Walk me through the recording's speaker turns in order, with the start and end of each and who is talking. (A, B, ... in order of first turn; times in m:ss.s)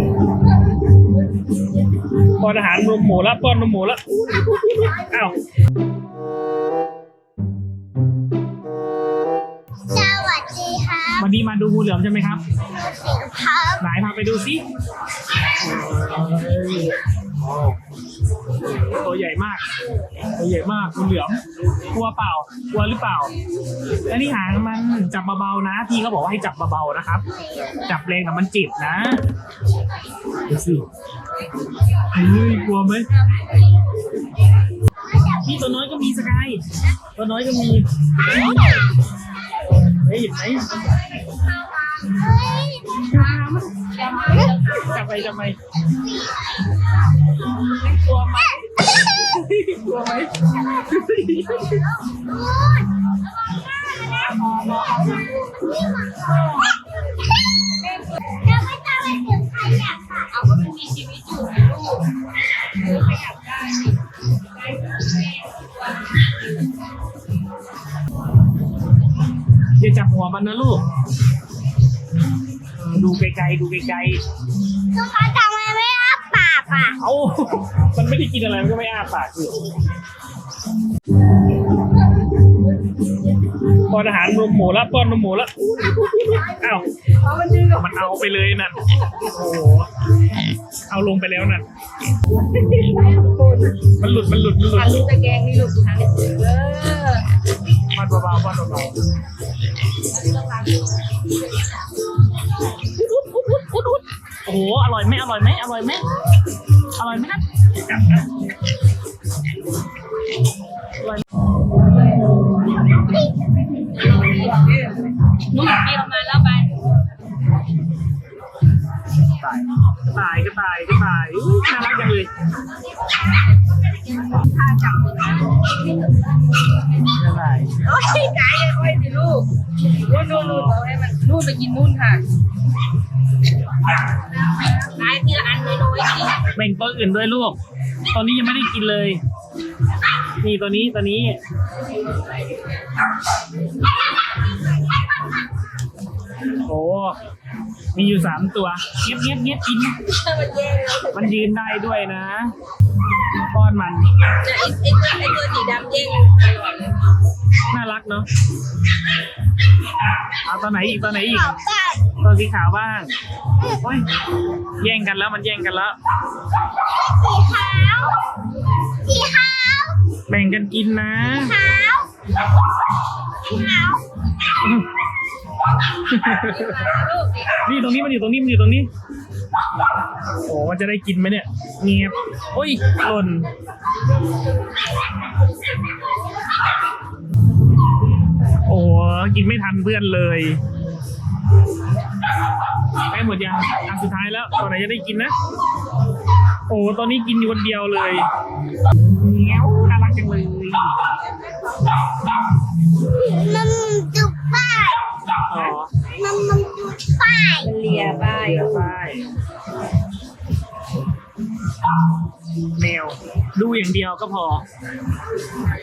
0:02.3-0:05.4 A
0:09.9-0:11.3 B
0:11.2-0:12.4 A
0:12.7-0:13.8 B
0:13.8-0:14.6 A
0:15.6-0:17.8 A
0:18.6-0:19.6 A
0:20.3-0:23.4 A
0:24.1-0:29.2 A
0:30.5-0:30.9 A
0:32.1-0:33.1 A
0:35.2-0:38.6 A
0:38.5-0:38.8 B
0:39.9-0:40.8 A
0:42.1-0:43.2 B
0:43.0-0:45.6 A
0:44.1-0:44.8 C
0:47.8-0:51.9 A
0:52.0-0:53.1 B
0:55.0-0:56.4 B
0:58.3-1:00.3 B
1:00.3-1:02.1 C
1:02.8-1:04.0 C
1:09.8-1:10.8 A
1:12.7-1:14.2 A
1:14.9-1:17.0 B
1:17.0-1:19.7 A
1:23.7-1:25.7 A
1:25.9-1:28.0 C
1:26.4-1:26.9 A
1:27.7-1:29.9 A
1:30.9-1:31.7 A
1:32.5-1:33.8 C
1:33.8-1:35.0 A
1:34.8-1:37.3 C
1:37.9-1:39.0 A
1:40.2-1:40.8 C
1:43.0-1:46.1 A
1:46.9-1:48.2 A
1:51.0-1:51.2 A
1:53.9-1:56.9 C
1:59.2-2:02.3 A
2:03.8-2:06.4 C
2:07.0-2:07.8 A
2:07.9-2:12.3 C
2:10.1-2:10.8 A
2:14.5-2:16.5 C
2:16.5-2:17.6 A
2:18.1-2:19.2 A
2:20.4-2:21.4 A
2:26.6-2:27.2 A
2:27.9-2:30.1 A
2:30.1-2:31.3 C
2:31.1-2:32.5 A
2:33.4-2:34.1 A
2:34.3-2:37.1 C
2:37.7-2:38.3 A
2:40.4-2:41.6 A
2:41.4-2:42.1 B
2:42.1-2:43.2 A
2:43.7-2:44.1 A
2:44.8-2:46.0 A
2:46.9-2:48.2 B
2:48.9-2:50.1 B
2:50.3-2:51.6 A
2:51.4-2:52.1 B
2:53.5-2:54.1 B
2:54.5-2:54.9 A
2:55.9-2:56.9 A
2:56.4-2:57.6 C
2:57.6-2:58.9 A
3:00.4-3:03.5 A
3:08.6-3:10.6 A
3:13.1-3:15.4 A
3:16.7-3:18.3 A
3:19.1-3:21.0 A
3:23.1-3:25.1 B
3:25.5-3:25.9 A
3:26.0-3:27.8 B
3:27.6-3:29.0 C
3:27.8-3:29.3 A
3:32.7-3:34.7 A